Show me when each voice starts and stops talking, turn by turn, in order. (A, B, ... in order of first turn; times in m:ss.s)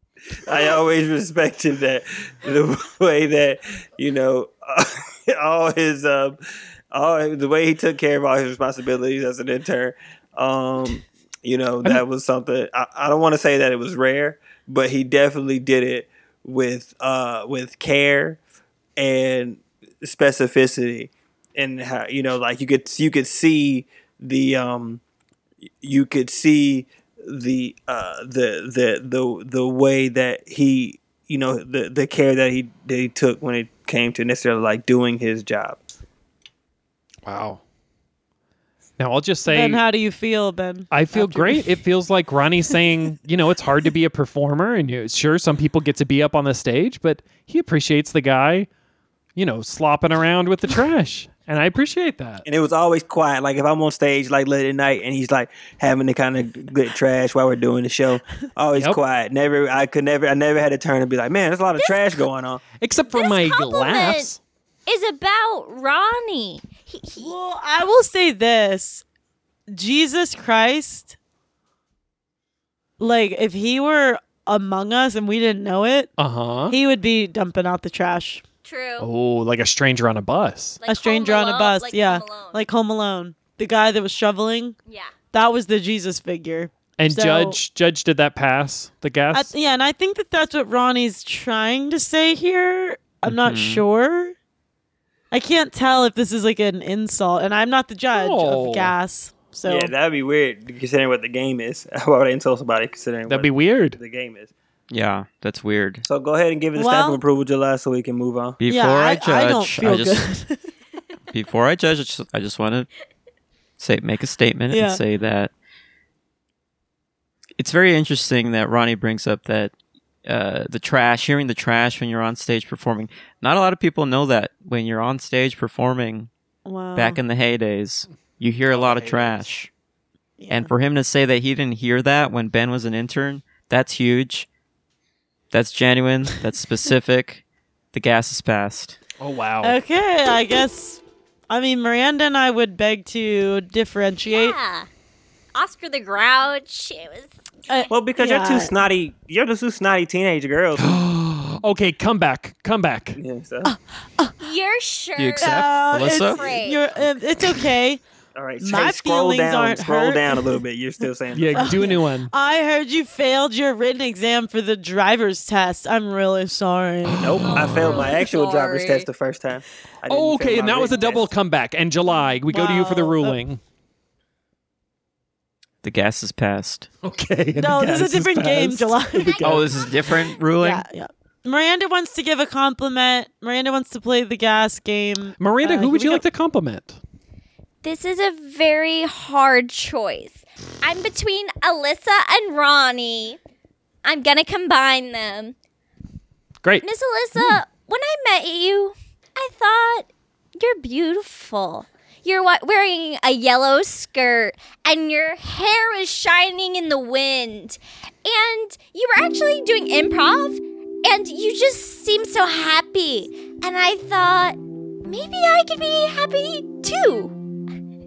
0:00.4-0:18.4 A
0:19.0-0:25.0 A
0:25.8-0:35.8 A
0:37.2-0:37.6 B
0:39.0-0:39.8 B
0:39.4-0:41.8 C
0:40.9-0:48.7 B
0:49.4-0:52.4 B
0:52.4-1:02.6 A
1:01.8-1:02.1 D
1:02.8-1:04.4 B
1:03.1-1:04.3 D
1:04.8-1:07.3 D
1:07.2-1:09.0 C
1:09.7-1:11.2 C
1:13.0-1:16.1 C
1:16.2-1:16.8 B
1:16.7-1:18.4 C
1:18.6-1:19.1 D
1:19.0-1:20.8 B
1:20.8-1:22.6 D
1:20.8-1:24.8 C
1:24.9-1:25.1 D
1:25.3-1:27.6 C
1:27.0-1:29.5 B
1:29.3-1:34.4 C
1:33.2-1:33.8 E
1:35.3-1:39.9 C
1:38.1-1:38.9 B
1:39.6-1:44.5 A
1:43.3-1:44.0 B
1:44.9-1:46.0 E
1:46.0-1:48.6 A
1:46.8-1:47.2 C
1:48.6-1:50.2 E
1:48.7-1:50.7 C
1:51.3-1:52.9 E
1:53.8-1:55.5 E
1:54.7-1:55.0 C
1:57.6-1:59.7 E
2:00.2-2:06.3 E
2:06.6-2:07.2 C
2:07.0-2:09.7 E
2:08.7-2:09.4 B
2:10.4-2:10.7 C
2:10.5-2:14.5 E
2:15.5-2:17.4 E
2:17.9-2:19.0 E
2:19.2-2:19.8 B
2:19.6-2:24.6 C
2:24.3-2:24.9 D
2:25.5-2:27.3 D
2:27.7-2:28.7 C
2:27.9-2:31.0 A
2:30.8-2:33.2 B
2:33.2-2:33.7 A
2:33.6-2:34.4 C
2:34.4-2:36.8 D
2:35.2-2:36.6 E
2:35.4-2:38.0 C
2:38.3-2:41.8 A
2:38.6-2:40.6 C
2:41.3-2:42.3 B
2:41.5-2:47.4 C
2:47.1-2:47.9 B
2:47.2-2:51.3 A
2:47.4-2:49.1 D
2:50.1-2:53.6 B
2:52.5-2:53.4 C
2:55.8-2:56.9 E
2:57.0-2:59.6 B
2:57.6-2:59.6 C
2:59.1-3:00.2 D
2:59.4-3:00.8 E
3:00.6-3:06.2 C
3:05.4-3:07.0 B
3:07.8-3:13.4 D
3:14.0-3:15.5 D
3:16.8-3:37.3 D
3:17.4-3:17.6 B